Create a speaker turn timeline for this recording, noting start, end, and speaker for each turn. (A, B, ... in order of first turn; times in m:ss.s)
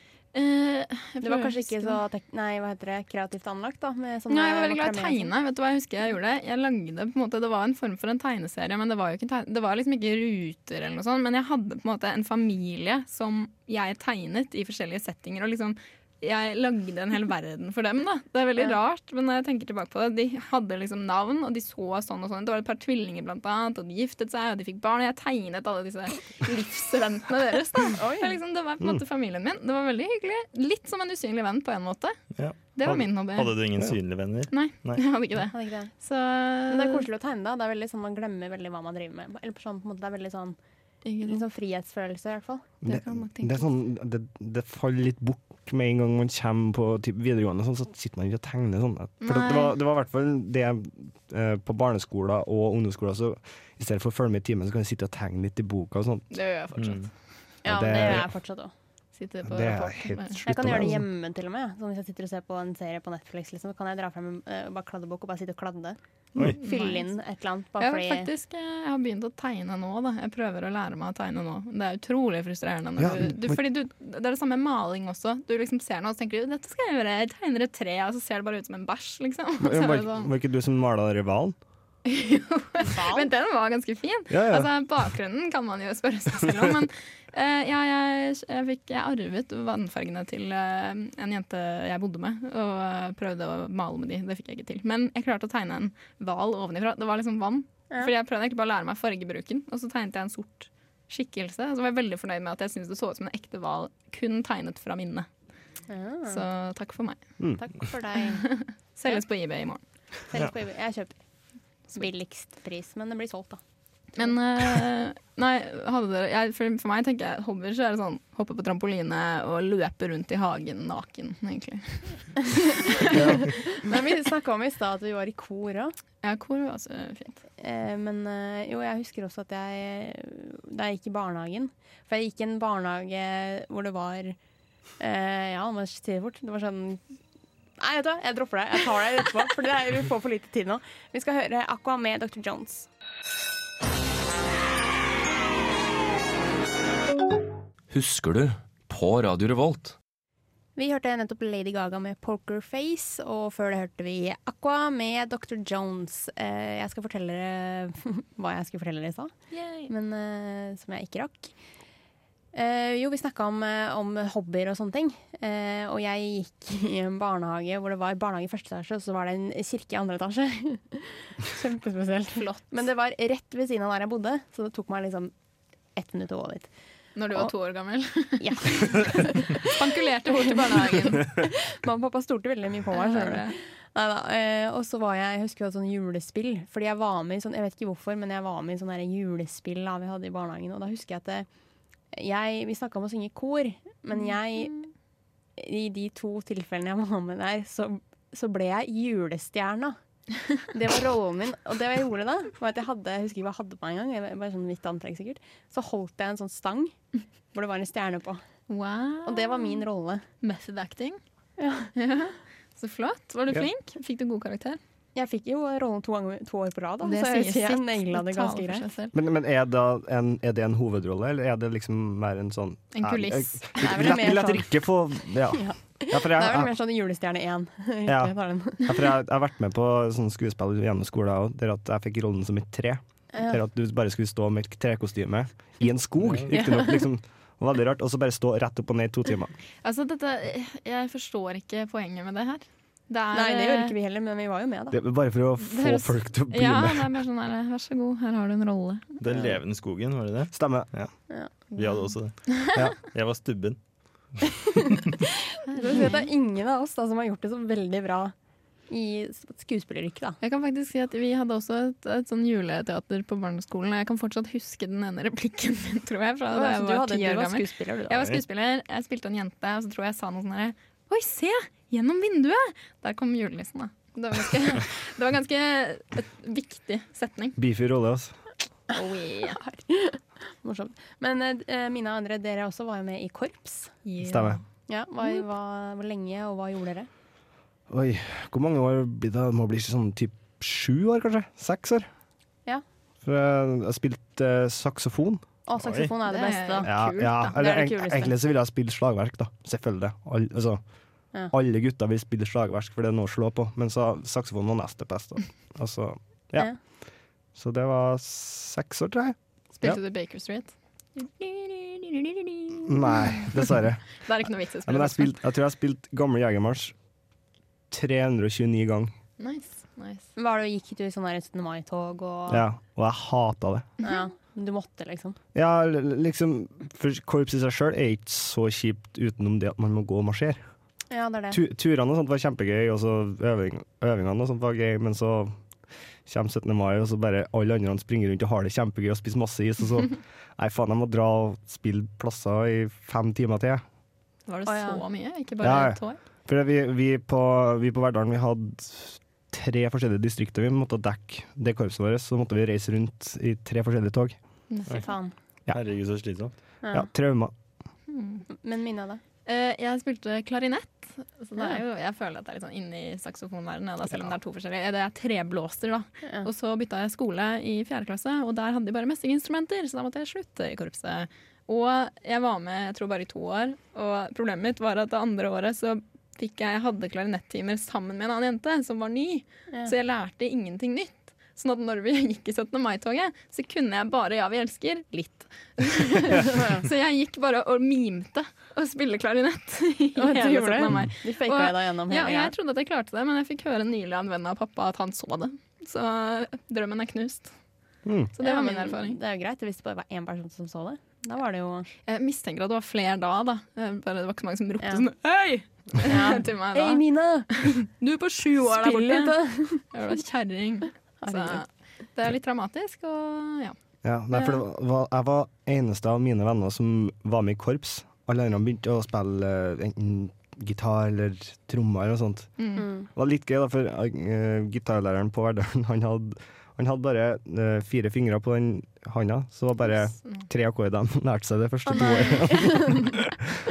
0:00.3-0:02.0 A
0:01.2-0:05.3 B
0:04.3-0:32.2 A
0:27.9-0:28.4 B
0:32.3-0:35.0 C
0:32.7-0:33.5 A
0:34.5-0:37.0 A
0:35.5-0:35.9 B
0:36.7-0:40.6 B
0:41.0-0:41.4 A
0:41.2-0:42.7 B
0:42.8-0:56.3 D
0:42.8-0:43.7 A
0:49.2-0:49.8 A
0:56.3-0:57.1 A
0:56.8-0:57.1 C
0:57.6-0:58.7 B
0:57.6-0:58.3 D
0:59.1-1:00.4 A
0:59.4-1:01.1 D
1:00.4-1:08.3 B
1:06.6-1:07.1 A
1:07.8-1:20.3 A
1:13.0-1:13.6 D
1:19.6-1:21.6 D
1:22.0-1:45.3 A
1:22.8-1:23.3 B
1:24.3-1:24.7 D
1:45.9-1:46.4 B
1:46.3-1:47.2 A
1:47.4-1:47.6 D
1:47.6-1:48.5 B
1:48.3-1:49.8 A
1:50.3-1:51.2 B
1:51.9-1:53.6 B
1:54.2-2:03.2 A
2:03.1-2:05.9 B
2:03.1-2:03.5 D
2:06.2-2:07.4 A
2:07.6-2:14.4 B
2:15.0-2:17.0 B
2:17.8-2:22.9 B
2:27.9-2:29.9 E
2:30.8-2:39.3 B
2:39.5-2:39.9 A
2:39.9-2:41.5 B
2:42.5-2:55.3 B
2:52.4-2:52.8 A
2:55.9-2:56.7 B
2:57.2-3:01.4 A
2:58.4-3:11.5 B
3:02.9-3:03.6 A
3:12.1-3:14.8 B
3:15.6-3:20.0 B
3:20.6-3:27.0 B
3:27.5-3:28.4 B
3:28.7-3:29.8 A
3:29.2-3:30.2 B
3:30.4-3:31.2 A
3:31.6-3:31.9 B
3:31.9-3:34.8 A
3:35.1-3:38.8 B
3:37.0-3:39.1 A
3:39.1-3:46.7 D
3:42.9-3:44.2 A
3:43.8-3:44.8 B
3:45.5-3:48.9 B
3:48.0-3:59.5 D
3:53.3-3:53.6 B
3:56.2-3:56.5 C
3:56.5-3:57.0 B
3:59.8-4:04.0 A
4:03.3-4:05.0 B
4:04.9-4:07.1 D
4:05.6-4:09.2 A
4:09.2-4:11.1 C
4:10.5-4:10.9 D
4:11.7-4:12.7 A
4:11.8-4:13.8 C
4:15.2-4:18.3 B
4:15.7-4:16.2 A
4:18.9-4:20.4 B
4:20.4-4:37.6 A
4:26.5-4:28.4 B
4:37.6-4:38.3 D
4:38.9-4:39.6 A
4:39.5-4:43.9 B
4:44.0-4:44.6 A
4:44.2-4:44.6 D
4:44.9-4:47.1 B
4:47.9-4:52.1 D
4:53.2-4:55.4 D
4:55.6-4:56.9 B
4:55.8-4:56.1 C
4:56.2-4:57.6 A
4:56.8-5:00.8 D
4:57.5-4:58.3 B
5:01.5-5:06.7 D
5:07.5-5:10.0 D
5:09.8-5:15.4 A
5:12.8-5:14.2 D
5:14.8-5:16.9 D
5:17.9-5:19.1 D
5:19.4-5:20.3 A
5:20.4-5:22.6 B
5:22.5-5:23.9 D
5:24.0-5:25.4 B
5:25.5-5:30.6 D
5:31.1-5:31.6 B
5:31.5-5:35.5 D
5:36.2-5:43.8 D
5:44.5-5:46.2 A
5:44.6-5:45.0 B
5:45.6-5:54.4 D
5:54.7-5:55.1 A
5:54.9-5:55.3 B
5:55.7-5:56.5 C
5:56.8-5:57.1 B
5:56.9-5:57.5 D
5:58.1-5:58.4 A
5:58.5-5:59.2 B
5:59.4-6:37.5 A
6:26.3-6:26.8 B
6:30.2-6:32.5 B
6:38.0-6:38.3 D
6:38.4-6:39.2 A
6:38.4-6:41.9 B
6:42.0-6:53.8 A
6:46.0-6:47.6 B
6:48.6-6:49.8 B
6:51.2-6:51.6 B
6:54.0-7:02.5 D
7:02.6-7:02.9 A
7:02.8-7:03.1 B
7:03.1-7:13.3 D
7:11.9-7:13.1 B